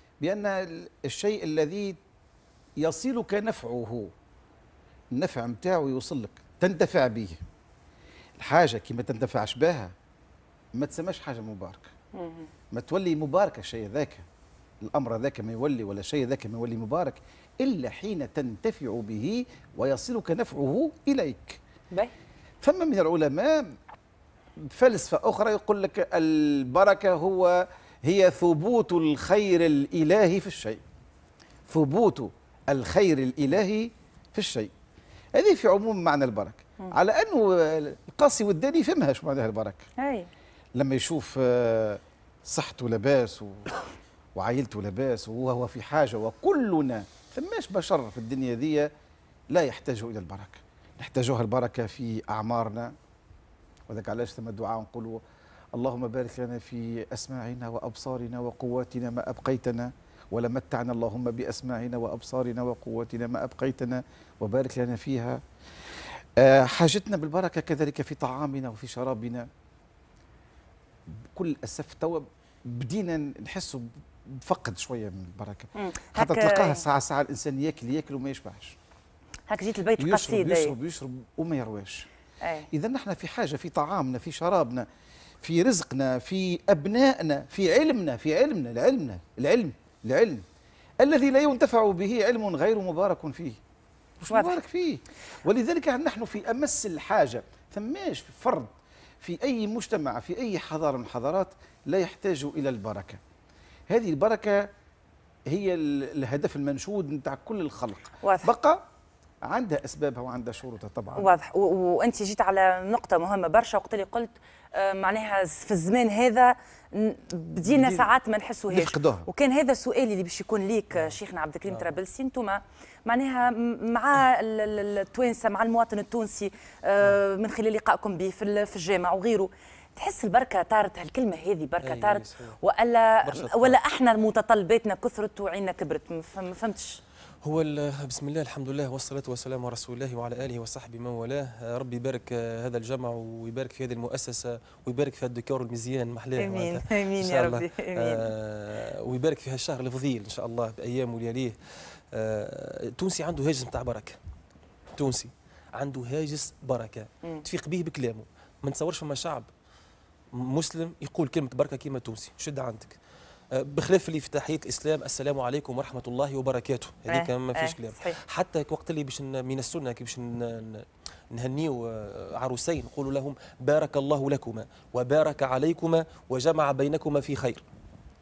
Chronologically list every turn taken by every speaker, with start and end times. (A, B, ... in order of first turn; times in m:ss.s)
0:00.2-0:02.0 A
0:02.8-0:04.1 A
0:05.1-0:07.4 A
0:08.4-0:09.9 A
0:10.8-0:11.9 A
0:12.1-0:12.5 B
0:12.7-0:14.3 A
0:14.8-0:21.6 A
0:22.6-0:23.8 A
0:24.7-0:30.8 A
0:31.7-0:34.7 A
0:35.4-0:39.9 A
0:40.0-0:40.3 B
0:40.8-0:43.7 A
0:44.4-0:48.9 A
0:49.5-0:52.9 A
0:53.9-0:55.2 A
0:55.8-1:05.4 A
1:06.4-1:09.5 A
1:11.3-1:18.8 A
1:15.8-1:16.8 B
1:19.5-1:20.8 B
1:20.0-1:22.1 A
1:22.4-1:22.7 B
1:22.7-1:24.9 A
1:25.4-1:30.4 A
1:31.0-1:33.6 A
1:34.2-1:43.2 A
1:34.3-1:34.6 B
1:43.9-1:44.7 A
1:45.5-1:48.8 A
1:48.2-1:48.5 B
1:49.4-1:51.3 A
1:51.2-2:17.0 B
1:57.6-1:58.1 A
1:58.7-1:59.3 A
2:11.8-2:12.6 C
2:13.2-2:13.8 C
2:17.4-2:31.6 C
2:26.4-2:28.3 B
2:32.1-2:34.2 C
2:35.0-2:39.5 C
2:40.3-2:43.0 C
2:43.5-2:57.6 C
2:47.1-2:48.2 B